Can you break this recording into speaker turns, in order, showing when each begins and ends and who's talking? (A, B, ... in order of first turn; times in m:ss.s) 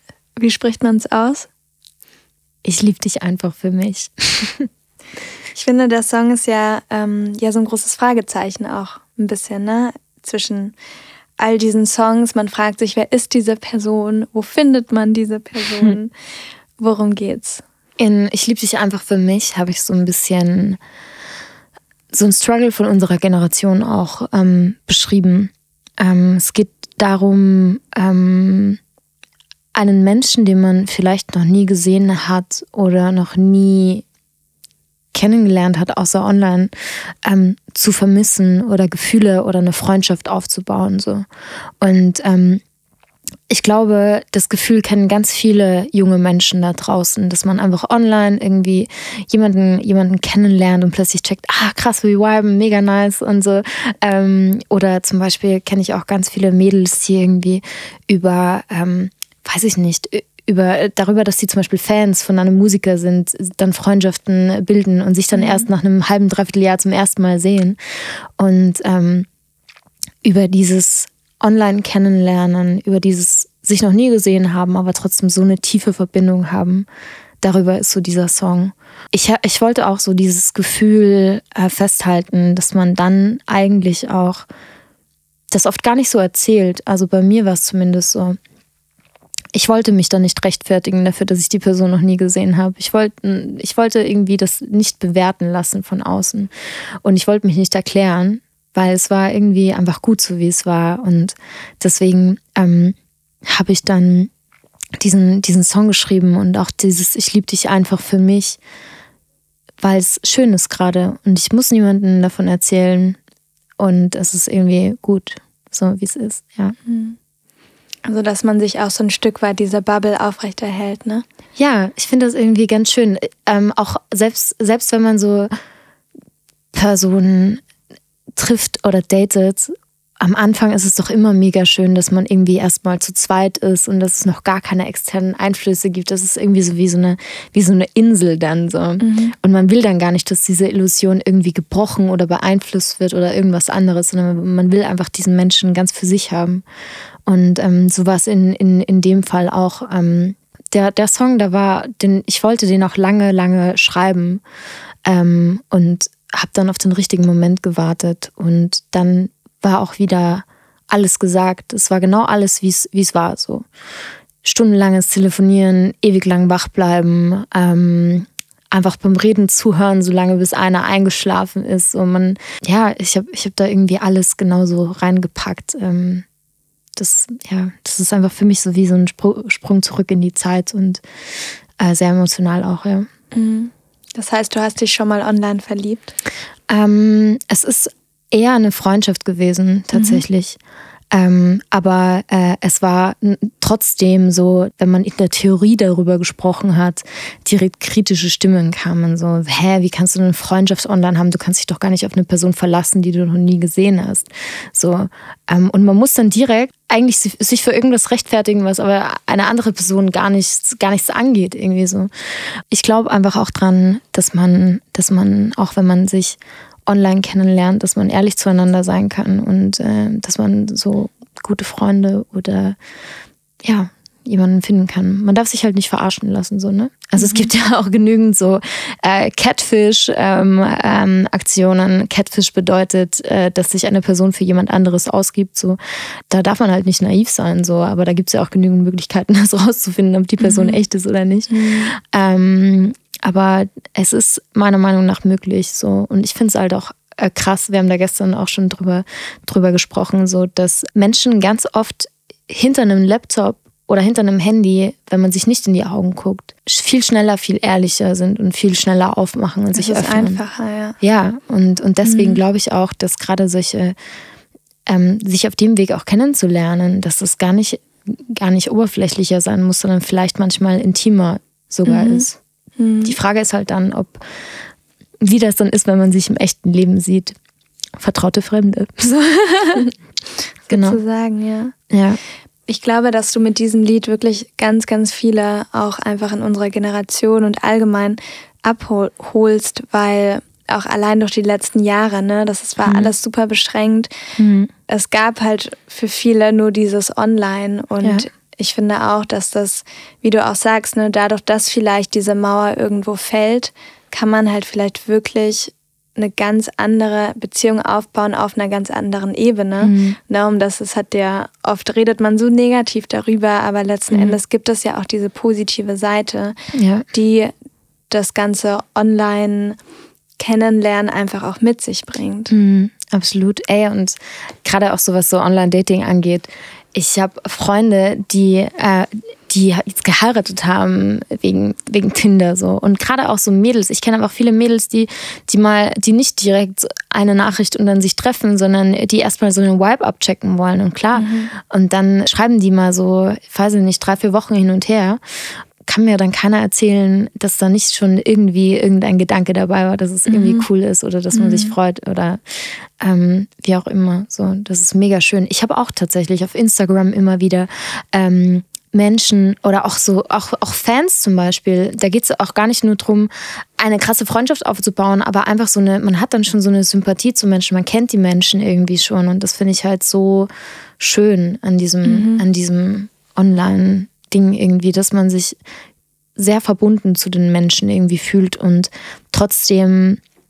0:00.4-0:01.5 A
0:02.6-0:04.7 B
0:05.5-0:10.8 A
0:11.4-0:16.1 A
0:16.8-0:17.6 A
0:18.0-0:20.8 B
0:22.1-0:28.8 B
0:29.7-0:34.0 B
0:35.1-0:36.7 B
0:37.2-0:41.2 B
0:41.8-0:42.6 B
0:43.5-1:07.8 B
1:05.3-1:05.7 A
1:08.4-1:09.3 B
1:10.2-1:16.9 B
1:17.4-1:24.5 B
1:25.5-1:28.4 B
1:29.5-1:36.5 B
1:37.0-1:44.3 B
1:45.0-1:48.6 B
1:49.8-1:53.2 B
1:53.8-1:56.8 B
1:56.8-1:57.2 A
1:58.0-2:01.2 A
2:01.6-2:05.5 B
2:06.7-2:07.6 B
2:08.4-2:26.6 B
2:19.0-2:19.3 A
2:27.3-2:34.4 B
2:35.0-2:43.6 B
2:44.4-2:56.2 B
2:57.0-3:01.0 B
3:01.8-3:03.1 B
3:03.3-3:06.1 A
3:06.7-3:10.6 B
3:09.9-3:10.2 A
3:11.1-3:32.1 B
3:32.7-3:42.8 B
3:43.6-3:55.8 B
3:47.2-3:47.5 A
3:56.3-4:20.4 B
4:00.4-4:00.8 A
4:01.5-4:01.9 A
4:19.7-4:21.0 A
4:21.0-4:24.0 B
4:22.0-4:22.4 A
4:24.9-4:32.4 B
4:31.8-4:32.2 A
4:32.8-4:33.2 A
4:33.0-4:34.2 B
4:35.2-4:37.3 B
4:38.0-4:39.8 B
4:40.7-4:41.7 A
4:40.7-4:41.0 B
4:41.9-4:42.2 B
4:42.7-4:54.1 A
4:52.8-4:53.1 B
4:54.4-4:54.7 B
4:54.9-5:16.6 A
4:58.0-4:58.3 B
5:09.8-5:10.2 B
5:14.1-5:14.4 B
5:16.7-5:17.0 B
5:17.1-5:17.5 A
5:18.1-5:19.8 A
5:20.4-5:22.5 A
5:22.5-5:45.2 B
5:41.1-5:41.5 A
5:45.8-5:52.4 B
5:50.3-5:50.6 A
5:51.3-5:51.7 A
5:53.0-6:15.6 B
6:12.0-6:12.4 A
6:16.4-6:20.2 B